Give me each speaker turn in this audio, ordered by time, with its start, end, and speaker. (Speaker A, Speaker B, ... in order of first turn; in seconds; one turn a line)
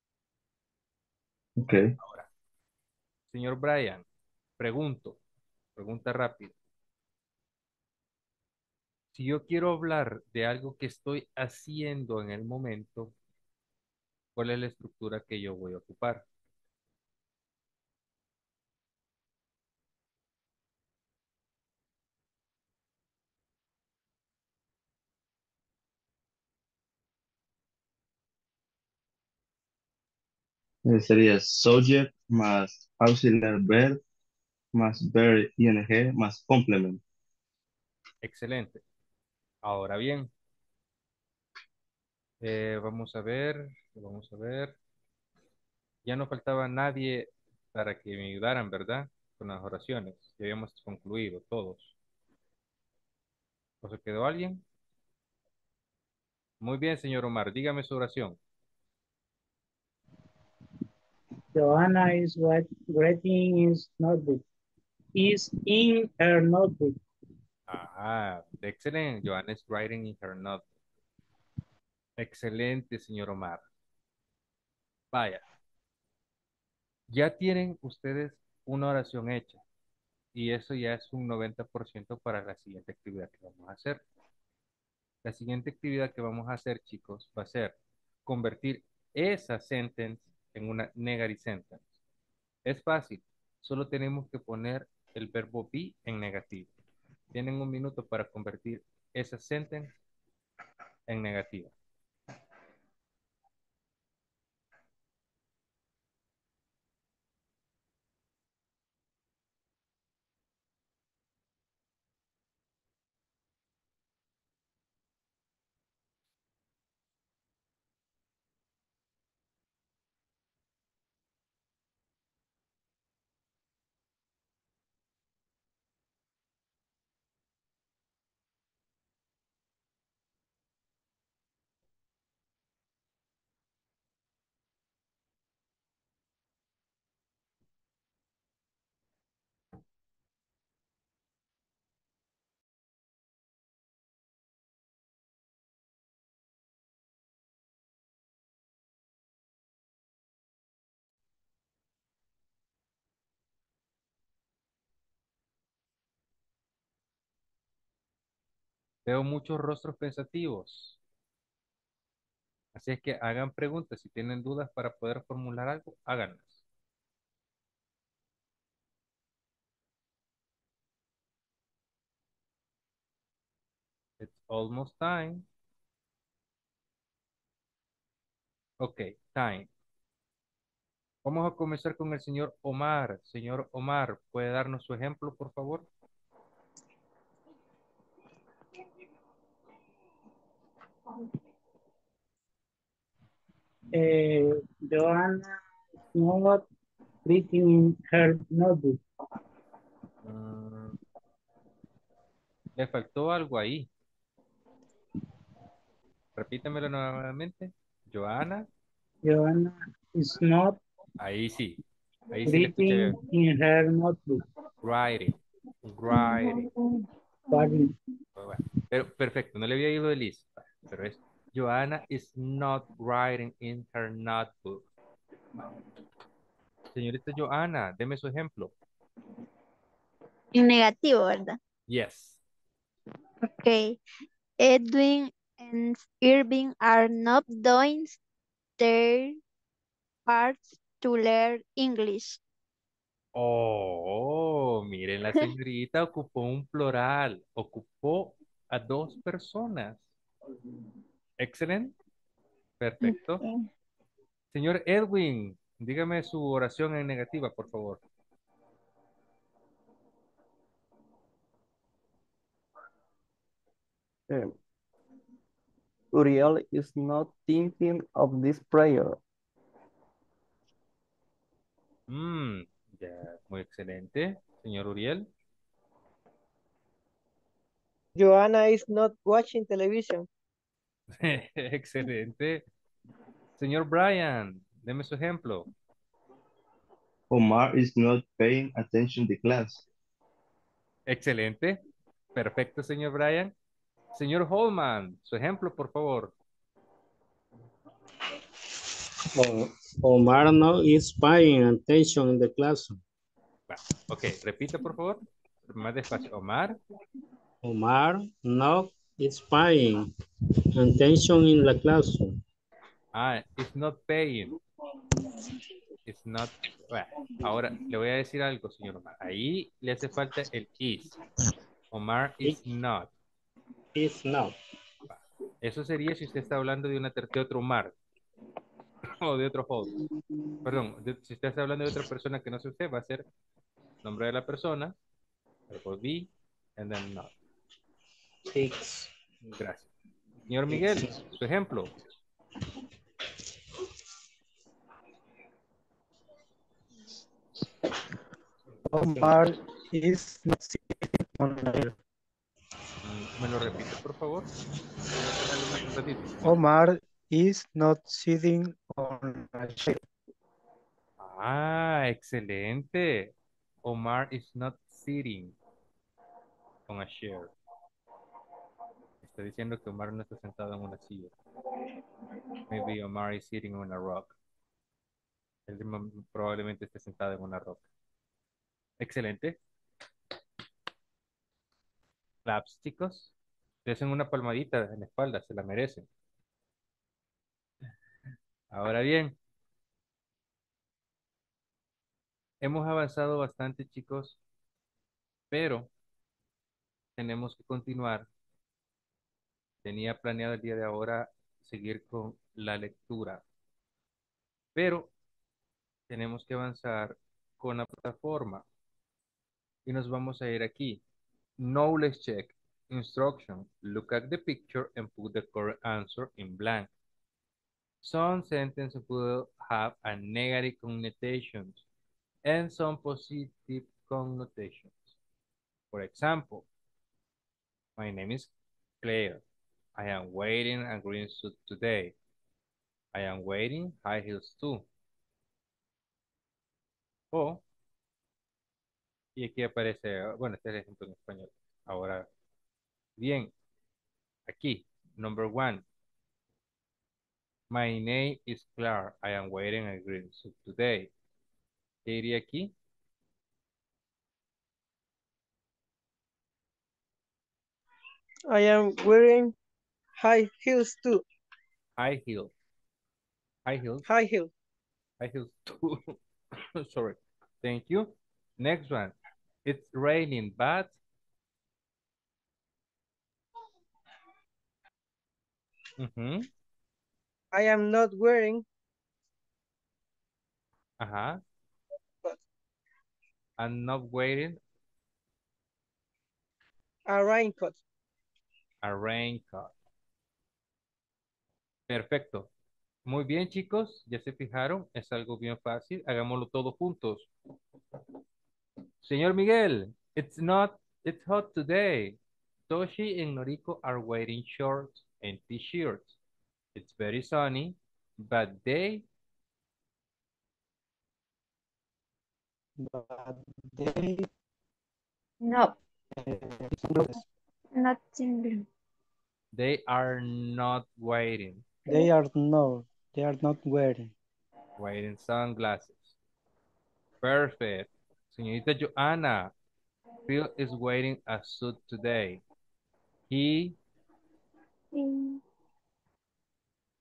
Speaker A: 1.6-1.9
Speaker B: 2.0-2.3
Speaker B: 3.3-4.0
Speaker B: 4.6-5.2
Speaker B: 5.8-6.5
Speaker B: 9.1-13.1
Speaker B: 14.4-16.3
Speaker A: 30.9-34.0
Speaker A: 34.7-37.0
Speaker B: 38.2-38.8
Speaker B: 39.6-40.3
Speaker B: 42.4-44.8
Speaker B: 46.0-52.0
Speaker B: 53.8-54.6
Speaker B: 56.6-58.4
Speaker C: 61.5-64.4
Speaker C: 65.2-67.0
Speaker B: 67.7-70.7
Speaker B: 72.2-73.6
Speaker B: 75.1-75.4
Speaker B: 77.1-79.6
Speaker B: 80.3-84.0
Speaker B: 85.2-91.9
Speaker B: 92.7-96.7
Speaker B: 97.3-99.9
Speaker B: 101.1-101.7
Speaker B: 159.1-161.0
Speaker B: 162.7-166.6
Speaker B: 174.2-175.4
Speaker B: 178.8-179.7
Speaker B: 181.2-185.9
Speaker C: 193.9-195.6
Speaker C: 196.1-196.6
Speaker C: 197.2-199.0
Speaker B: 200.2-201.0
Speaker B: 202.8-203.9
Speaker B: 206.4-208.7
Speaker C: 209.2-210.8
Speaker B: 211.2-211.8
Speaker B: 212.3-213.2
Speaker C: 212.4-214.4
Speaker B: 214.8-216.7
Speaker D: 216.1-217.9
Speaker C: 217.5-217.9
Speaker B: 218.4-224.9
Speaker B: 226.9-228.7
Speaker D: 230.5-231.6
Speaker B: 231.9-232.4
Speaker D: 233.4-234.0
Speaker D: 234.6-238.2
Speaker D: 238.8-239.4
Speaker D: 240.3-242.4
Speaker B: 243.3-250.1
Speaker B: 251.4-251.9
Speaker B: 252.8-253.4
Speaker D: 253.0-253.6
Speaker B: 254.5-258.0
Speaker E: 264.3-264.5
Speaker E: 266.1-269.2
Speaker B: 272.1-275.3
Speaker F: 278.1-280.3
Speaker B: 281.1-282.6
Speaker B: 283.6-285.7
Speaker A: 287.3-289.8
Speaker B: 291.1-291.8
Speaker B: 292.3-293.5
Speaker B: 294.1-296.3
Speaker G: 299.3-303.0
Speaker B: 303.7-306.8
Speaker G: 307.6-310.1
Speaker G: 310.7-312.4
Speaker B: 313.1-314.6
Speaker B: 316.1-321.1
Speaker B: 321.9-323.1
Speaker G: 323.9-324.6
Speaker B: 325.1-327.9
Speaker B: 329.1-329.9
Speaker B: 330.6-333.3
Speaker B: 334.0-334.9
Speaker B: 335.7-337.3
Speaker G: 338.5-339.6
Speaker B: 339.6-339.9
Speaker B: 340.5-341.9
Speaker G: 340.7-341.3
Speaker H: 348.9-351.9
Speaker B: 353.0-354.5
Speaker B: 355.2-356.6
Speaker H: 356.4-360.0
Speaker B: 361.2-363.3
Speaker B: 363.9-365.6
Speaker B: 366.9-367.5
Speaker B: 369.2-371.3
Speaker B: 372.7-374.3
Speaker B: 375.7-377.9
Speaker B: 379.0-379.6
Speaker B: 382.4-383.3
Speaker B: 383.9-386.1
Speaker B: 388.7-389.4
Speaker B: 392.6-394.4
Speaker B: 395.5-395.9
Speaker B: 397.2-398.3
Speaker B: 399.8-403.4
Speaker B: 404.8-405.1
Speaker B: 406.1-408.6
Speaker B: 409.9-411.0
Speaker B: 411.6-416.9
Speaker B: 418.0-421.8
Speaker B: 422.4-425.1
Speaker B: 425.9-426.7
Speaker B: 428.0-429.4
Speaker B: 429.9-432.1
Speaker B: 433.1-434.8
Speaker B: 437.3-437.6
Speaker B: 439.4-442.3
Speaker B: 443.2-443.5
Speaker B: 444.5-445.8
Speaker B: 447.7-451.1
Speaker B: 452.1-452.7
Speaker F: 458.5-459.5
Speaker F: 460.2-461.2
Speaker B: 462.0-462.5
Speaker B: 463.6-464.1
Speaker F: 464.1-464.5
Speaker B: 465.2-466.2
Speaker B: 466.7-471.0
Speaker B: 476.0-476.5
Speaker F: 477.5-478.6
Speaker B: 481.0-481.4
Speaker B: 483.6-484.6
Speaker F: 487.1-487.8
Speaker B: 488.8-489.7
Speaker B: 491.9-492.5
Speaker B: 493.1-497.3
Speaker B: 499.0-502.2
Speaker B: 502.7-506.2
Speaker B: 506.8-509.1
Speaker H: 512.8-514.3
Speaker D: 515.4-515.8
Speaker H: 516.2-517.2
Speaker D: 517.8-518.6
Speaker B: 519.5-521.6
Speaker H: 521.9-524.1
Speaker B: 524.8-526.1
Speaker B: 527.2-529.5
Speaker B: 530.3-532.4
Speaker B: 533.3-533.8
Speaker D: 534.9-535.4